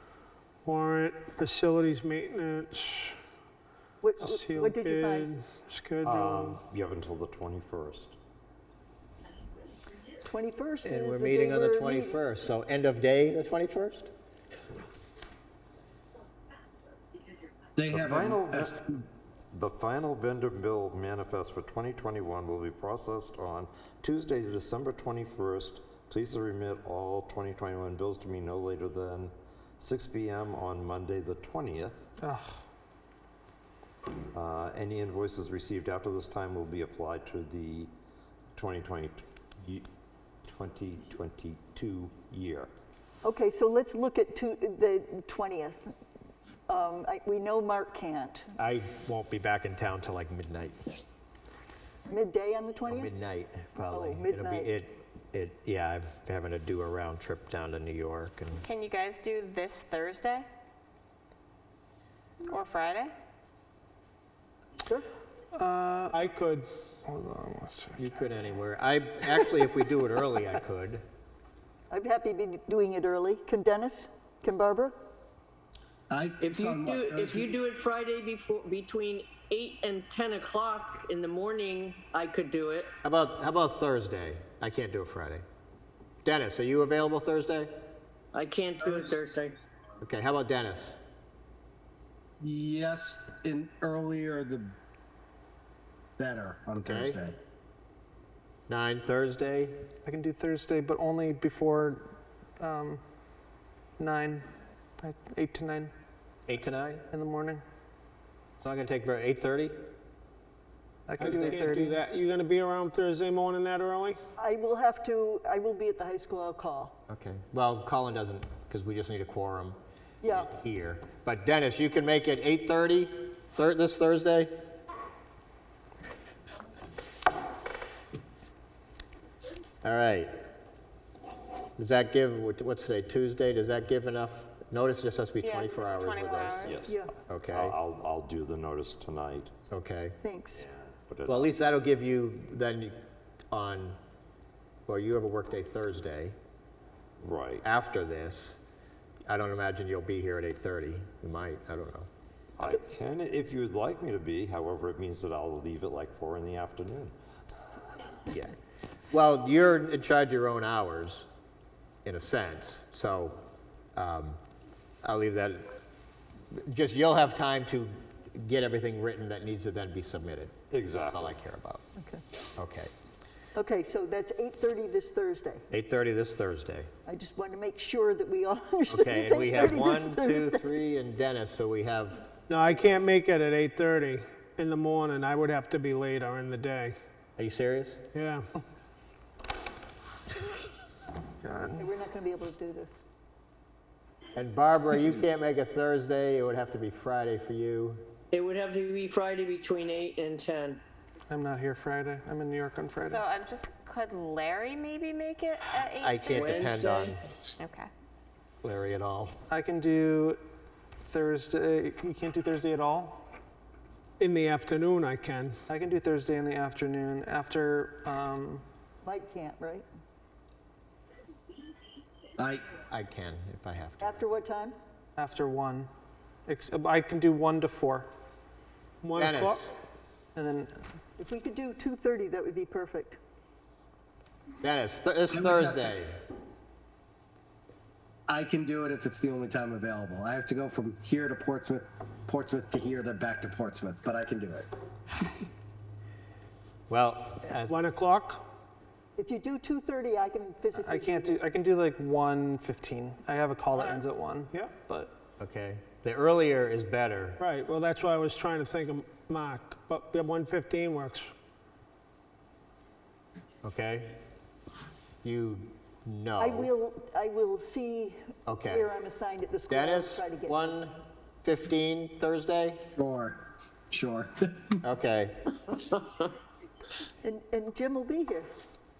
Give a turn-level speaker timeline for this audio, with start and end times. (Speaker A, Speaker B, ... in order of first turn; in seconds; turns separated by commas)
Speaker A: 0.7-3.2, Speaker B: 4.0-5.3, Speaker A: 4.2-6.6, Speaker C: 6.0-8.2, Speaker B: 10.2-12.2, Speaker D: 10.8-14.1, Speaker E: 17.8-18.7, Speaker C: 17.9-32.1, Speaker F: 32.2-32.6, Speaker C: 34.3-37.9, Speaker C: 38.6-39.9, Speaker C: 40.5-42.7, Speaker B: 43.2-45.9, Speaker B: 46.7-48.5, Speaker D: 48.6-51.0, Speaker B: 52.1-53.1, Speaker D: 52.9-58.6, Speaker B: 53.9-54.7, Speaker G: 58.6-60.5, Speaker G: 62.5-63.1, Speaker B: 64.8-65.1, Speaker F: 65.5-66.2, Speaker A: 66.1-66.7, Speaker F: 67.0-68.0, Speaker D: 68.0-71.0, Speaker B: 71.9-74.9, Speaker E: 76.1-77.5, Speaker H: 76.4-82.9, Speaker D: 83.0-85.4, Speaker D: 86.2-87.7, Speaker H: 88.3-89.6, Speaker D: 90.0-91.0, Speaker E: 92.4-94.7, Speaker E: 96.2-97.4, Speaker D: 96.8-97.2, Speaker D: 98.7-99.9, Speaker F: 100.0-103.0, Speaker F: 104.0-104.5, Speaker F: 105.0-105.9, Speaker D: 106.5-107.0, Speaker F: 107.1-107.6, Speaker D: 108.6-109.8, Speaker F: 111.1-112.0, Speaker A: 111.2-114.2, Speaker D: 111.3-111.6, Speaker B: 114.4-117.0, Speaker D: 117.1-124.5, Speaker B: 120.2-120.5, Speaker D: 129.8-130.3, Speaker D: 131.8-136.7, Speaker G: 135.4-136.8, Speaker C: 136.6-139.5, Speaker B: 136.8-137.1, Speaker D: 137.3-137.8, Speaker D: 139.7-140.2, Speaker B: 140.2-140.6, Speaker C: 140.5-141.6, Speaker D: 141.3-143.0, Speaker D: 143.5-144.0, Speaker D: 144.9-146.4, Speaker C: 147.2-147.7, Speaker D: 147.6-148.6, Speaker D: 149.3-152.1, Speaker C: 152.6-157.1, Speaker D: 158.3-158.6, Speaker D: 159.1-161.3, Speaker D: 162.1-163.4, Speaker D: 164.0-164.4, Speaker D: 165.0-165.7, Speaker D: 166.6-171.8, Speaker C: 170.7-171.4, Speaker D: 172.6-172.9, Speaker B: 173.6-175.6, Speaker D: 175.7-176.9, Speaker B: 177.1-180.7, Speaker D: 178.9-182.3, Speaker A: 182.5-187.0, Speaker D: 187.4-188.0, Speaker A: 188.1-188.5, Speaker F: 191.4-191.9, Speaker B: 191.8-193.0, Speaker D: 194.3-198.1, Speaker H: 198.3-200.8, Speaker F: 201.3-203.2, Speaker G: 203.1-206.4, Speaker D: 206.0-207.2, Speaker H: 206.2-207.2, Speaker G: 207.6-207.9, Speaker D: 208.6-209.3, Speaker F: 209.5-210.4, Speaker F: 211.1-213.2, Speaker A: 214.2-215.6, Speaker F: 215.7-218.6, Speaker B: 219.0-219.9, Speaker E: 222.4-222.7, Speaker D: 222.9-224.3, Speaker B: 224.0-224.8, Speaker F: 225.2-225.9, Speaker F: 226.5-228.1, Speaker A: 229.0-229.6, Speaker D: 229.2-229.8, Speaker F: 230.4-230.8, Speaker B: 231.2-233.2, Speaker D: 234.6-236.2, Speaker E: 235.4-235.8, Speaker E: 238.3-244.7, Speaker D: 246.9-247.8, Speaker A: 247.7-248.4, Speaker B: 249.2-251.4, Speaker F: 250.8-255.1, Speaker D: 255.4-257.4, Speaker A: 257.4-261.3, Speaker D: 263.6-264.2, Speaker D: 265.2-266.7, Speaker B: 266.4-270.7, Speaker D: 268.5-268.9, Speaker D: 269.7-272.8, Speaker E: 273.0-273.4, Speaker E: 273.9-274.8, Speaker D: 274.8-275.4, Speaker H: 275.9-276.3, Speaker B: 277.2-278.5